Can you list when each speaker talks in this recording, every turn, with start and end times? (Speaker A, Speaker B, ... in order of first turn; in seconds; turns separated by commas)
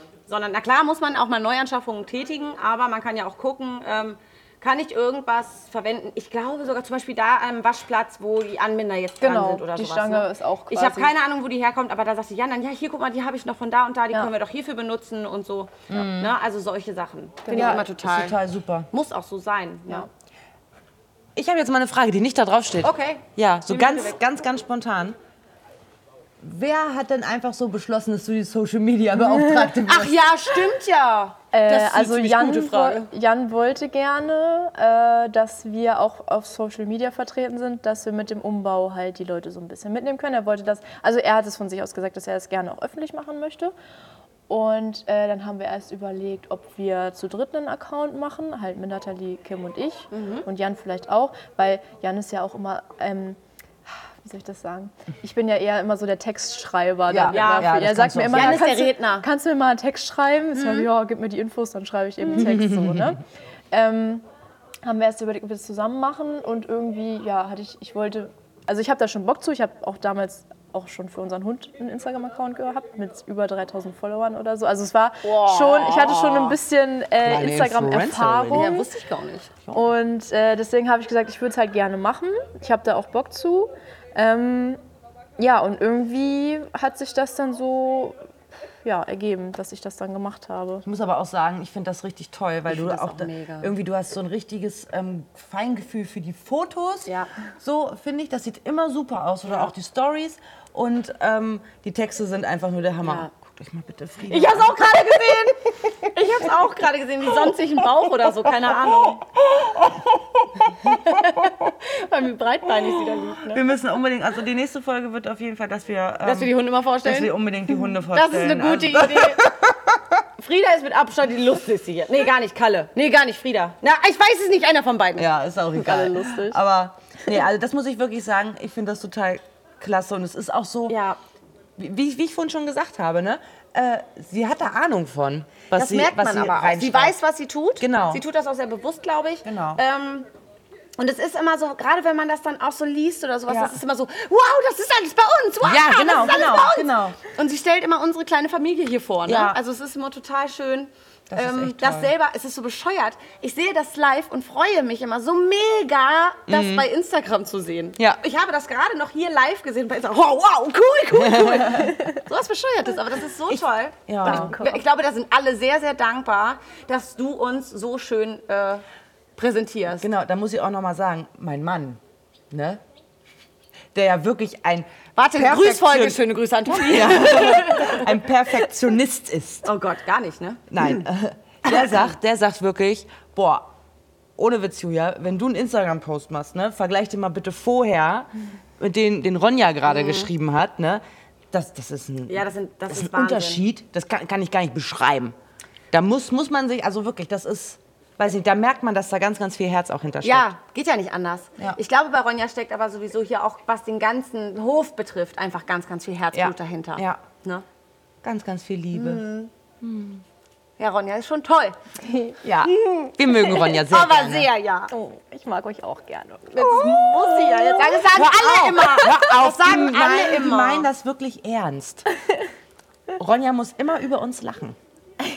Speaker A: 0.3-18.4, Speaker B: 9.2-11.1, Speaker C: 15.9-16.3, Speaker B: 17.4-17.8, Speaker C: 17.5-18.9, Speaker A: 18.9-20.1, Speaker C: 21.4-25.2, Speaker A: 22.8-24.2, Speaker C: 26.4-30.2, Speaker A: 29.8-33.1, Speaker B: 31.5-43.7, Speaker B: 44.5-53.4, Speaker A: 50.1-50.5, Speaker B: 53.9-64.2, Speaker C: 57.1-58.7, Speaker A: 57.2-59.3, Speaker A: 60.5-60.9, Speaker C: 62.3-63.1, Speaker B: 64.8-78.9, Speaker A: 75.2-76.6, Speaker C: 77.2-78.8, Speaker A: 78.5-79.5, Speaker B: 79.7-84.8, Speaker B: 85.4-88.2, Speaker B: 88.8-90.9, Speaker C: 90.9-104.9, Speaker A: 92.7-93.7, Speaker A: 103.0-103.3, Speaker A: 104.3-113.6, Speaker C: 110.8-111.5, Speaker C: 113.1-120.2, Speaker A: 116.2-119.5, Speaker A: 120.4-125.3, Speaker C: 125.2-131.0, Speaker B: 125.7-126.6, Speaker A: 130.9-131.2, Speaker C: 131.8-137.2, Speaker A: 135.7-140.3, Speaker C: 137.8-138.2, Speaker C: 139.4-139.8, Speaker A: 141.0-168.8, Speaker C: 143.5-143.8, Speaker C: 145.6-147.2, Speaker C: 149.3-149.6, Speaker C: 151.3-152.1, Speaker C: 156.5-156.9, Speaker C: 161.1-162.0, Speaker C: 163.5-164.6, Speaker B: 164.2-164.8, Speaker A: 169.4-170.1, Speaker C: 170.0-172.8, Speaker C: 173.9-179.7, Speaker A: 175.2-178.1, Speaker A: 179.7-181.0, Speaker C: 180.7-183.7, Speaker A: 181.7-182.1, Speaker C: 184.4-195.3, Speaker A: 189.9-190.3, Speaker A: 192.3-193.6, Speaker C: 195.9-200.5, Speaker A: 200.2-207.6, Speaker C: 206.3-207.2, Speaker C: 208.2-209.3, Speaker A: 208.9-209.5, Speaker C: 209.8-210.2, Speaker A: 210.8-211.8, Speaker B: 212.0-212.4, Speaker C: 212.4-214.5, Speaker A: 212.4-214.9, Speaker B: 214.9-217.8, Speaker A: 216.6-220.9, Speaker C: 216.6-222.1, Speaker C: 223.2-224.8